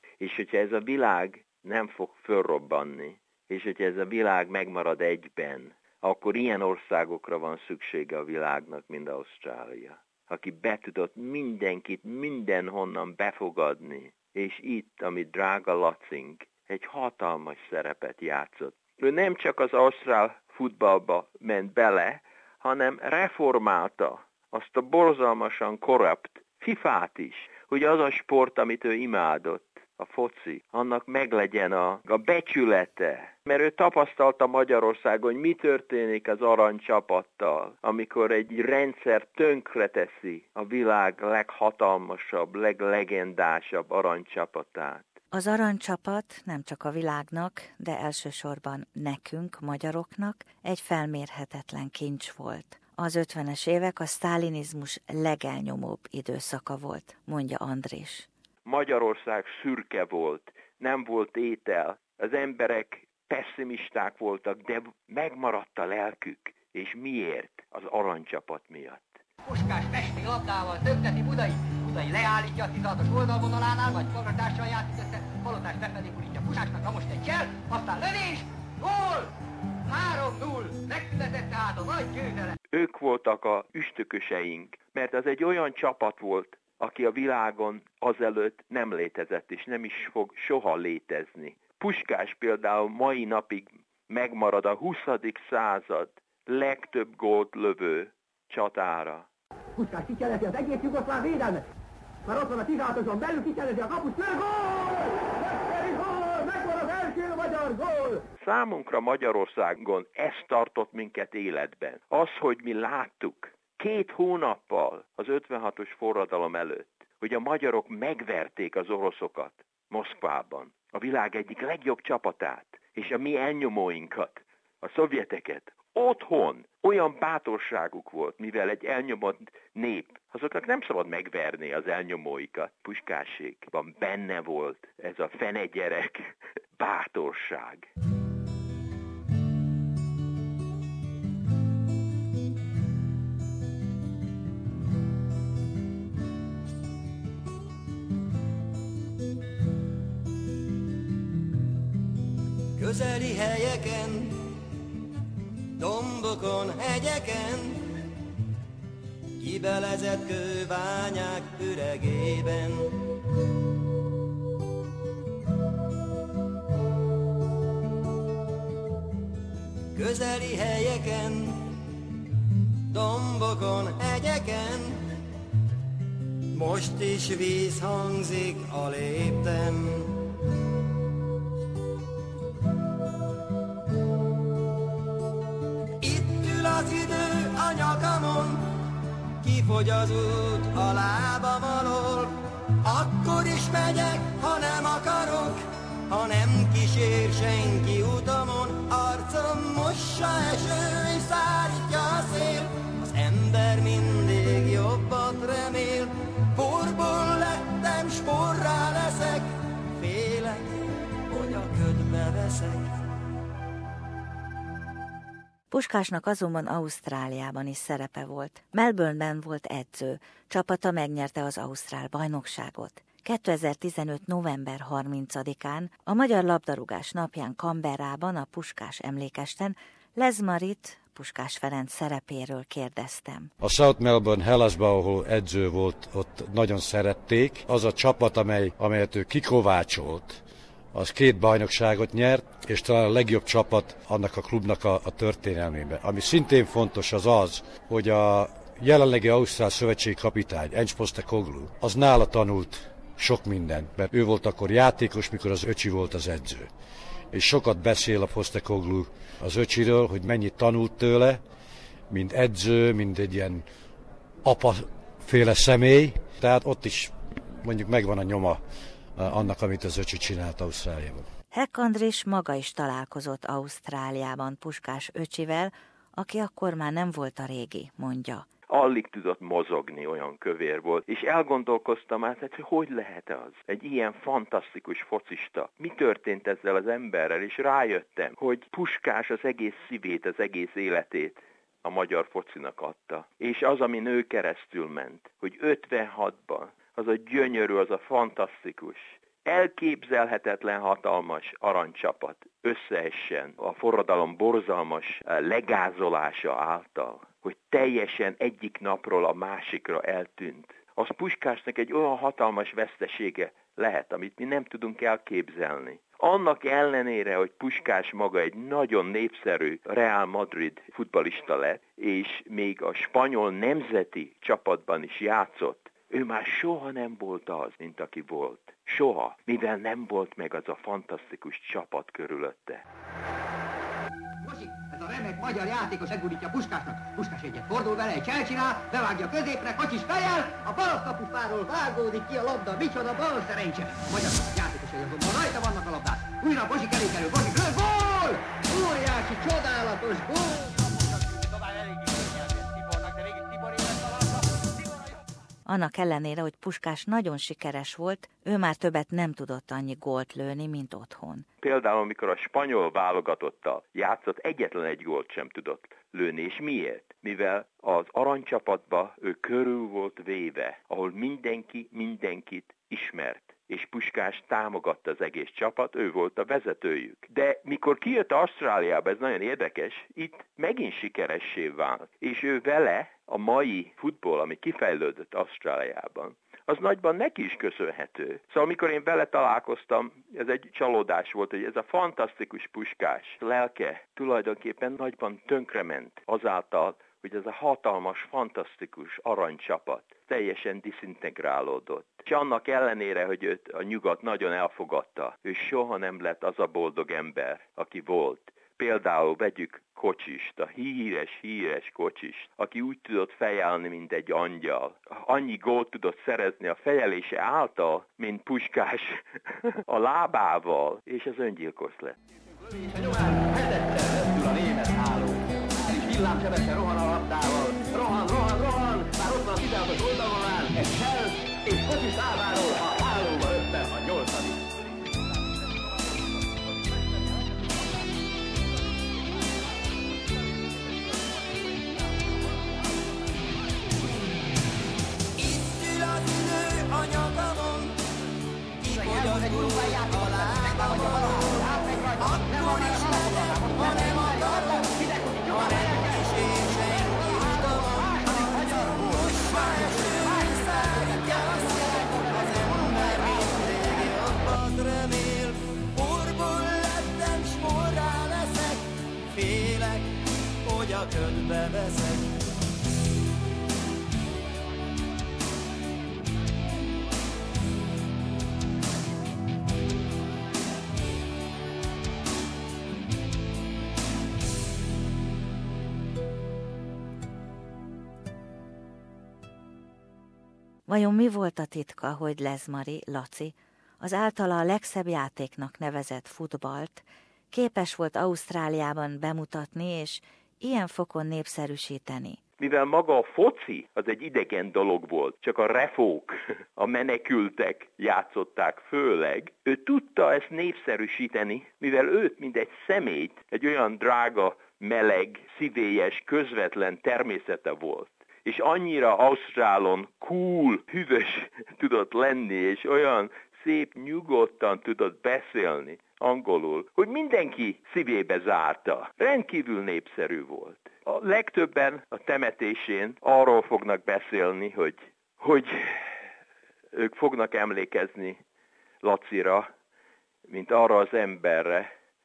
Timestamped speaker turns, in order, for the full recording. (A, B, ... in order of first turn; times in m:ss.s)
0:00.2-0:45.1 A
0:45.3-0:58.3 B
0:58.6-1:09.2 A
1:09.5-1:19.3 C
1:19.9-1:22.6 C
1:22.7-1:39.3 A
1:39.8-1:41.6 C
1:42.2-1:48.2 C
1:48.4-2:17.9 A
2:32.8-2:34.4 D
2:35.8-2:37.9 D
2:39.4-2:42.9 D
2:50.0-2:51.6 D
2:52.9-2:55.0 D
2:56.5-3:00.1 D
3:06.0-3:08.6 D
3:09.4-3:30.6 D
3:31.3-3:32.9 D
3:35.7-3:53.5 B
3:53.6-4:00.4 E
4:00.9-4:16.7 E
4:17.3-4:21.4 E
4:22.1-4:23.6 E
4:24.4-4:27.1 E
4:27.6-4:28.6 E
4:29.2-4:31.2 E
4:31.5-4:38.5 B
4:38.7-5:32.8 A
5:34.4-5:54.4 C
5:55.7-6:01.5 B
6:01.6-7:02.2 A
7:02.8-7:14.5 C
7:25.4-7:28.0 D
7:28.8-7:50.1 D
7:29.3-7:29.8 C
7:30.6-7:31.2 C
7:32.8-7:33.2 C
7:35.4-7:35.7 C
7:38.2-7:38.6 C
7:50.6-7:52.3 D
8:10.9-8:22.4 B
8:22.6-8:56.1 A
8:57.0-8:58.4 A
8:59.0-8:59.7 A
9:00.5-9:01.9 A